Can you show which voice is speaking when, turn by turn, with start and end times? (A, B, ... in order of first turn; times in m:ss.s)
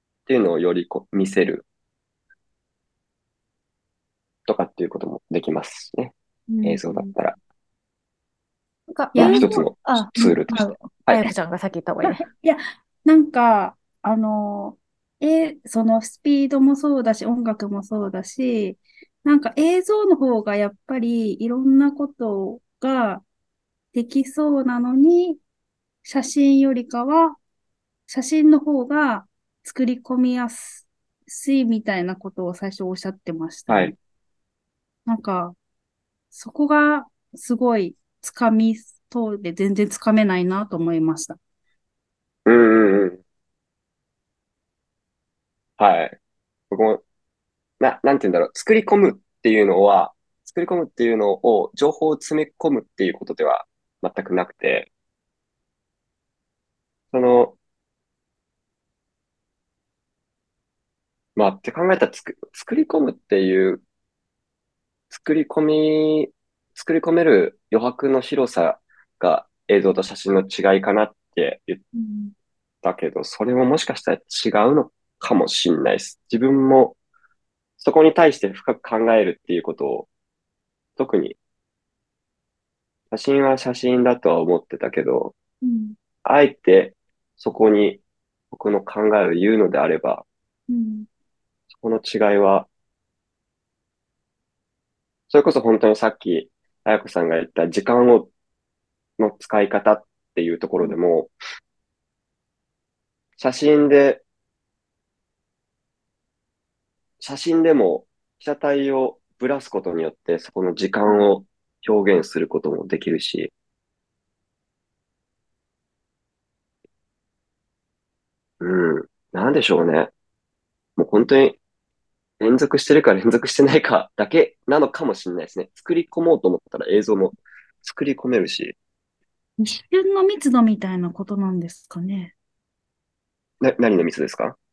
0:00.3-0:01.6 A
0:04.5-0:07.4 A
0:06.5-0:07.1 B
0:08.9-0:12.2 C
0:09.1-0:09.6 B
0:09.2-0:11.3 A
0:12.0-0:23.2 B
0:23.9-0:25.4 B
0:26.0-0:27.4 B
0:28.1-0:34.0 B
0:33.7-0:34.0 A
0:35.1-0:35.6 B
0:36.3-0:41.4 B
0:42.5-0:43.2 A
0:45.8-0:46.2 A
0:46.7-0:47.0 A
0:47.8-0:54.9 A
0:57.1-0:57.6 A
1:01.4-1:03.8 A
1:05.1-1:11.8 A
1:11.9-1:12.3 B
1:12.8-1:17.0 A
1:17.8-1:20.1 A
1:21.0-1:21.4 A
1:23.1-1:25.3 A
1:25.6-1:26.0 B
1:26.2-1:30.2 A
1:30.7-1:31.1 B
1:31.7-1:32.7 A
1:35.3-1:38.3 A
1:39.2-1:41.3 A
1:43.4-1:44.2 A
1:47.2-1:53.5 A
1:58.6-2:00.1 A
2:01.0-2:01.6 A
2:02.4-2:08.8 A
2:09.6-2:12.3 B
2:13.6-2:14.6 A